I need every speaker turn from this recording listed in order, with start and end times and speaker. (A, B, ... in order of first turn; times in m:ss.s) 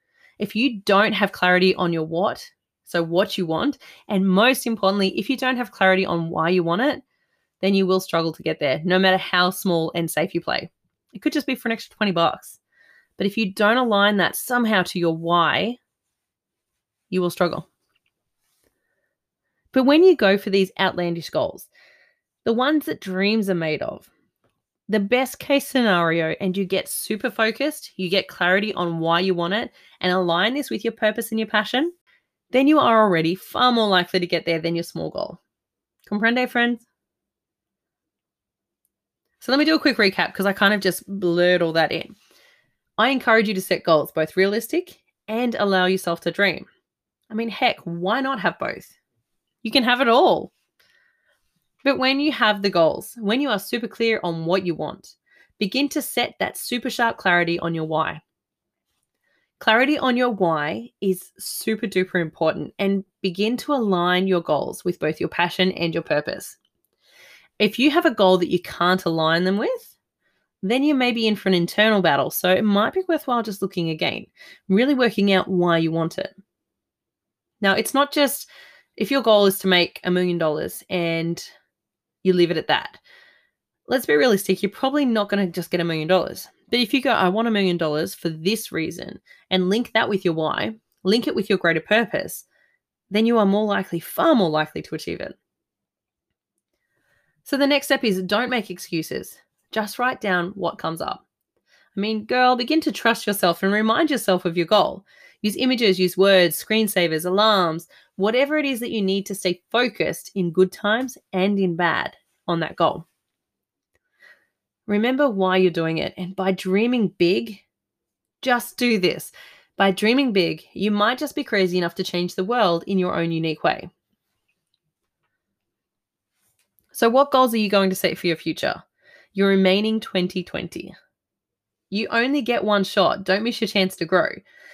0:00.4-0:07.0 A
0:07.6-0:12.6 A
0:13.2-0:15.8 A
0:17.1-0:17.7 A
0:19.7-0:21.7 A
0:22.4-0:24.1 A
0:24.9-0:31.9 A
0:32.5-0:35.4 A
0:36.1-0:36.8 A
0:39.4-0:42.2 A
0:43.0-0:46.7 A
0:47.3-0:48.9 A
0:49.6-0:50.5 A
0:51.8-0:58.2 A
0:59.6-1:06.6 A
1:07.6-1:09.9 A
1:10.6-1:16.3 A
1:17.6-1:21.5 A
1:22.2-1:23.0 A
1:23.9-1:32.4 A
1:33.1-1:35.4 A
1:37.4-1:41.2 A
1:41.9-1:53.0 A
1:54.9-1:57.6 A
1:58.4-2:03.9 A
2:06.9-2:10.9 A
2:11.9-2:14.4 A